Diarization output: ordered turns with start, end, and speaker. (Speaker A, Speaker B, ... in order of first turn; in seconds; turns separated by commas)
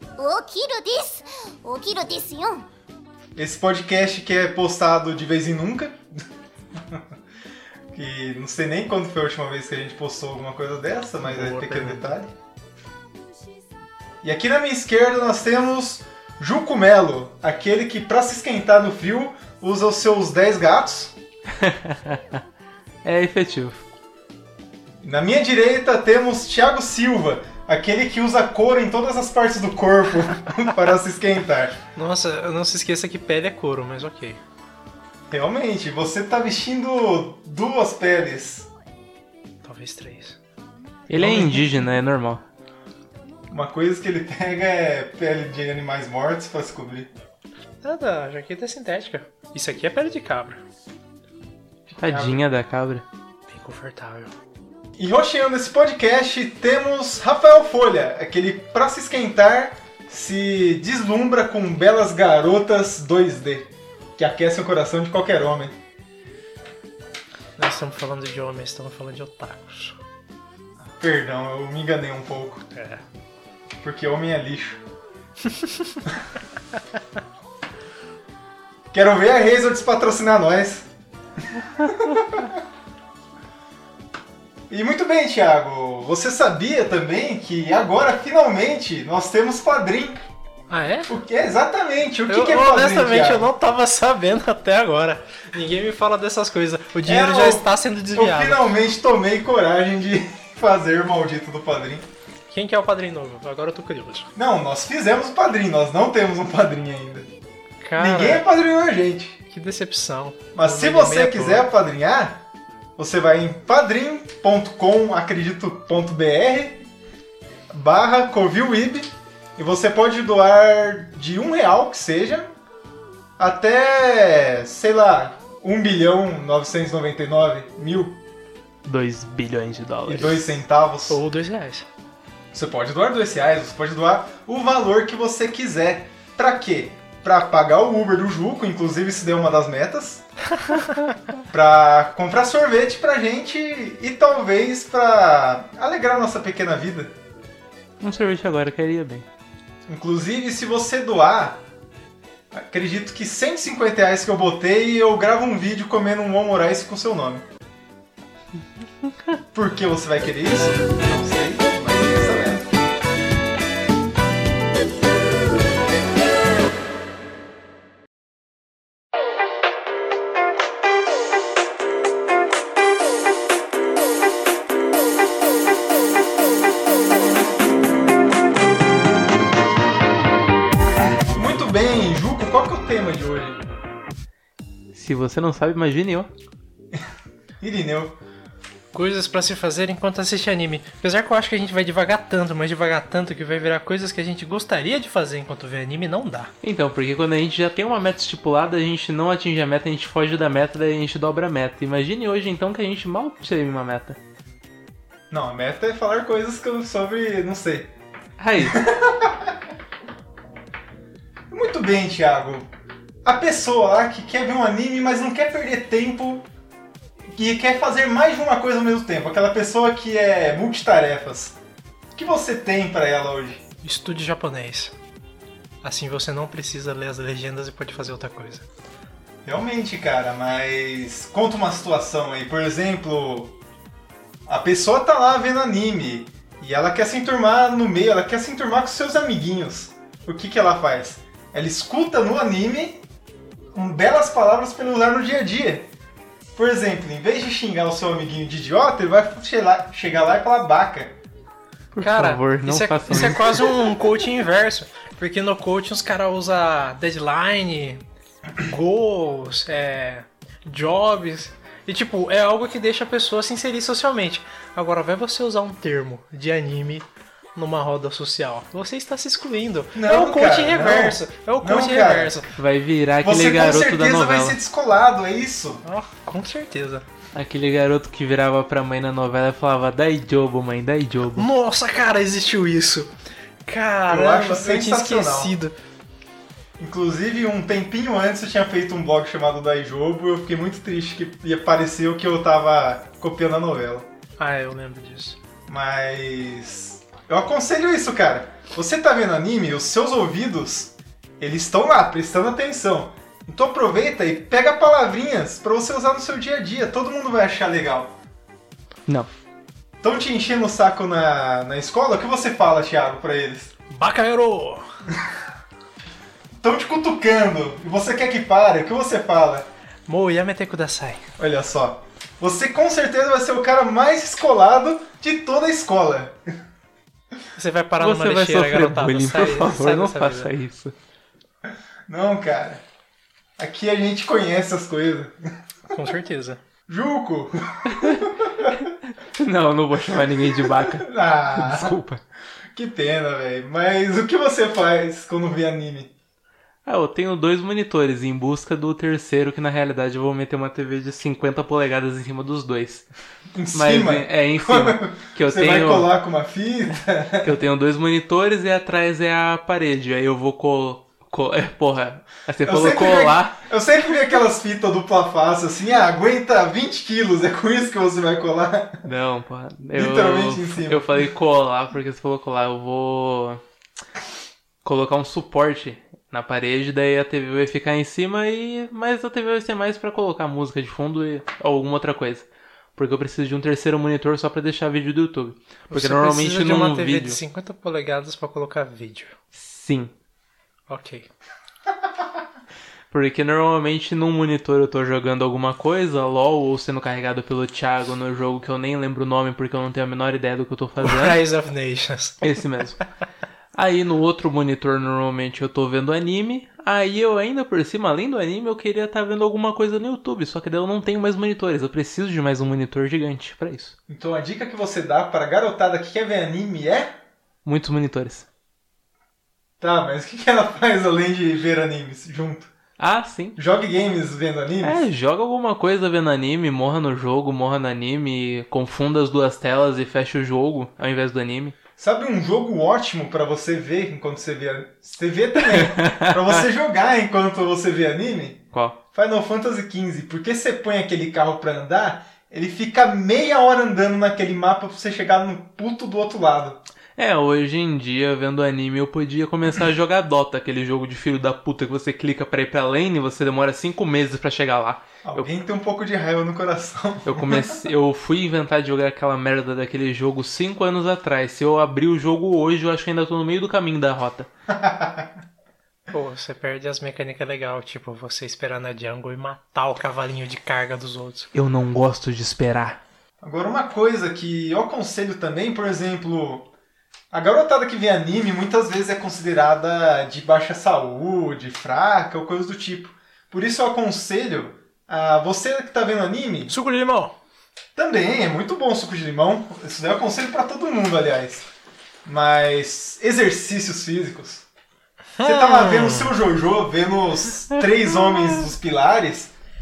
Speaker A: 0.2-2.7, Speaker B: 3.4-7.1, Speaker B: 7.9-12.3, Speaker C: 11.2-12.1, Speaker B: 14.2-21.1, Speaker D: 21.6-22.2, Speaker D: 23.0-23.8, Speaker B: 25.0-31.8, Speaker C: 31.9-34.4, Speaker B: 35.3-38.7, Speaker C: 39.6-40.4, Speaker D: 41.1-42.4, Speaker B: 41.1-41.7, Speaker B: 43.5-47.1, Speaker C: 47.8-50.6, Speaker B: 51.9-52.4, Speaker D: 52.0-53.0, Speaker C: 53.5-54.3, Speaker B: 55.0-65.8, Speaker C: 67.6-70.0, Speaker B: 70.8-72.6, Speaker C: 72.7-73.0, Speaker B: 73.8-74.8, Speaker C: 75.6-75.9, Speaker B: 78.9-80.9, Speaker B: 81.4-82.6, Speaker B: 84.7-90.2, Speaker C: 90.7-91.1, Speaker B: 91.1-93.5, Speaker C: 92.3-98.6, Speaker B: 97.0-102.0, Speaker C: 102.5-104.3, Speaker B: 104.3-107.3, Speaker C: 107.8-108.5, Speaker B: 108.0-109.4, Speaker C: 109.5-111.7, Speaker B: 110.5-112.4, Speaker B: 113.0-116.8, Speaker B: 117.7-122.5, Speaker B: 123.4-128.2, Speaker D: 128.8-130.5, Speaker B: 130.1-131.2, Speaker C: 131.1-131.9, Speaker B: 132.5-140.2, Speaker C: 140.6-140.9, Speaker B: 141.5-147.1, Speaker D: 148.0-149.2, Speaker B: 149.9-151.6, Speaker B: 152.5-157.4, Speaker B: 159.5-162.8, Speaker B: 181.0-183.6, Speaker D: 184.9-186.3, Speaker B: 187.6-188.2, Speaker C: 188.9-196.5, Speaker D: 196.6-204.2, Speaker B: 205.3-207.9, Speaker D: 208.4-208.8, Speaker B: 208.6-209.6, Speaker B: 211.5-212.7, Speaker B: 213.2-216.5, Speaker B: 217.3-221.6, Speaker B: 222.1-223.6, Speaker C: 223.8-224.9, Speaker C: 225.8-228.7, Speaker B: 229.4-233.6, Speaker B: 234.5-243.0, Speaker B: 243.7-245.9, Speaker B: 246.6-251.2, Speaker D: 251.9-253.7, Speaker C: 252.0-258.0, Speaker C: 258.6-272.5, Speaker B: 269.9-272.4, Speaker D: 272.5-274.6, Speaker B: 273.2-275.8, Speaker C: 275.8-277.0, Speaker D: 277.3-281.5, Speaker C: 281.4-283.1, Speaker C: 283.6-285.7, Speaker B: 284.1-285.5, Speaker B: 286.8-294.1, Speaker C: 294.4-295.4, Speaker B: 295.7-308.1, Speaker B: 310.0-313.7, Speaker C: 313.9-314.9, Speaker B: 316.6-319.7, Speaker C: 320.1-321.3, Speaker B: 321.4-326.6, Speaker C: 327.5-330.5, Speaker D: 328.0-330.9, Speaker B: 332.1-332.8, Speaker B: 333.6-335.6, Speaker C: 335.9-336.6, Speaker B: 336.9-338.8, Speaker D: 337.9-338.2, Speaker D: 338.7-342.2, Speaker B: 340.1-342.0, Speaker B: 342.7-346.1, Speaker D: 346.8-353.1, Speaker B: 353.5-357.5, Speaker D: 353.7-356.1, Speaker D: 357.4-363.7, Speaker B: 362.6-369.0, Speaker D: 369.0-373.6, Speaker B: 369.9-371.3, Speaker D: 374.8-387.4, Speaker C: 385.9-389.4, Speaker D: 389.5-390.1, Speaker C: 390.9-391.3, Speaker D: 393.1-401.4, Speaker C: 401.0-402.5, Speaker D: 402.4-403.0, Speaker D: 403.7-413.9, Speaker B: 414.1-417.2, Speaker D: 417.6-418.5, Speaker B: 419.8-422.7, Speaker D: 423.0-423.6, Speaker B: 423.6-425.0, Speaker D: 424.8-431.8, Speaker B: 432.0-446.8, Speaker D: 435.6-436.6, Speaker D: 438.7-439.0, Speaker D: 447.1-455.5, Speaker B: 455.2-457.8, Speaker D: 457.2-464.5, Speaker B: 464.7-465.4, Speaker C: 466.1-471.5, Speaker D: 471.5-473.0, Speaker B: 473.4-476.7, Speaker B: 477.3-486.8, Speaker C: 486.7-487.4, Speaker B: 487.9-491.7, Speaker B: 492.2-494.6, Speaker C: 495.4-496.3, Speaker B: 495.4-499.5